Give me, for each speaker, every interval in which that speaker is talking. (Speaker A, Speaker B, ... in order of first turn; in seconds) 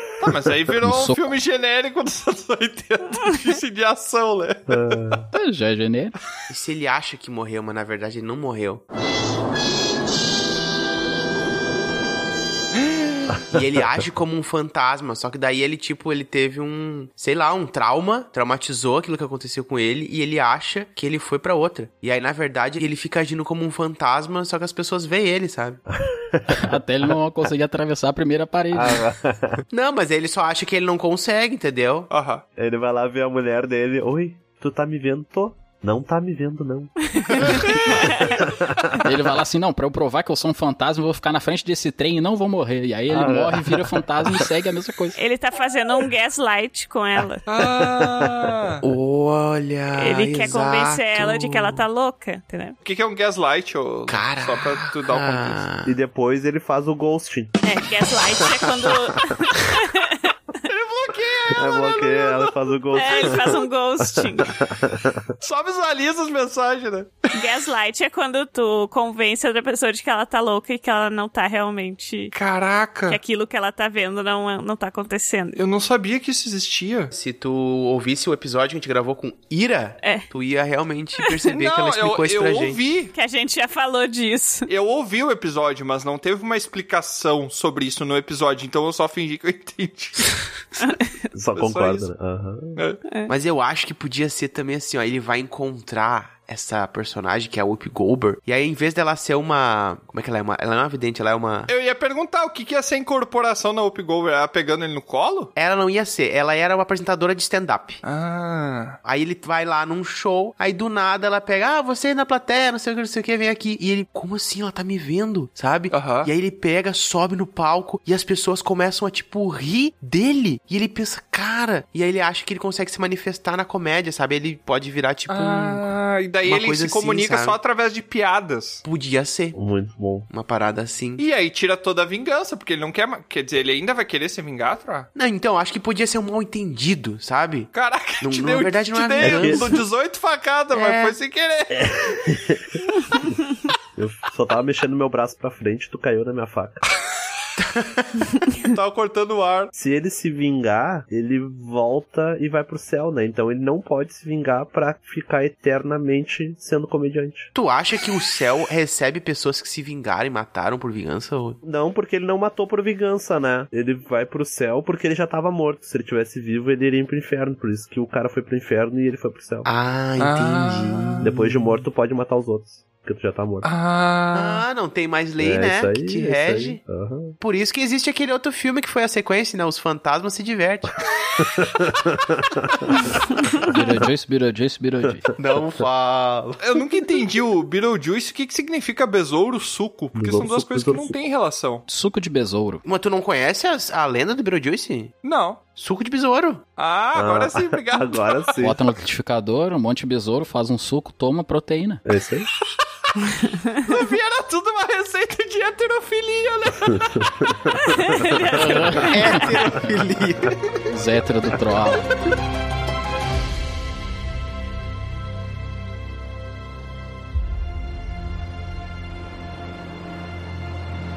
Speaker A: 0.2-5.2, 12.8-13.4, 32.1-32.4, 47.5-48.8, 52.8-55.7, 60.6-62.5, 65.4-67.3, 72.3-73.2, 75.6-77.1, 81.5-83.1, 84.7-90.4, 91.6-92.1, 101.7-105.5, 108.0-109.0, 115.9-116.3, 125.3-128.8, 131.2-135.1, 137.7-142.1, 148.6-149.7, 170.2-171.3, 173.6-174.7, 186.6-191.8, 195.2-195.6, 196.8-198.6, 203.8-207.3
Speaker B: 0.8-1.4, 5.3-6.2, 26.6-29.0, 39.0-45.2, 183.6-185.2, 191.9-192.8, 198.6-202.0, 208.6-209.2, 210.9-212.1
Speaker C: 4.7-5.3, 26.0-26.6, 28.7-29.6, 32.6-39.0, 43.1-44.5, 55.9-57.6, 61.5-65.3, 91.3-92.8, 129.5-130.3, 139.2-139.7, 141.7-142.8, 144.0-146.8, 149.8-157.5, 161.6-169.7, 171.2-173.7, 175.4-177.3, 181.4-183.0, 190.2-191.2, 197.2-198.8, 202.1-202.5, 207.2-208.0
Speaker D: 6.5-8.8, 13.5-25.8, 29.7-32.1, 48.8-51.8, 54.1-55.9, 77.1-82.8, 93.3-101.7, 105.6-108.0, 109.0-125.9, 126.5-127.6, 128.8-129.6, 130.3-131.2, 135.2-137.7, 138.2-139.8, 140.7-141.2, 157.5-161.6, 169.7-171.3, 174.3-176.8, 177.4-180.9, 185.4-186.6, 192.8-195.1, 195.8-196.6, 209.1-210.9
Speaker E: 37.1-38.4, 45.2-47.4, 50.0-52.8, 57.6-60.3, 62.9-64.5, 67.3-72.3, 73.1-75.6, 80.0-80.3, 83.1-84.7, 90.8-91.1, 207.8-209.4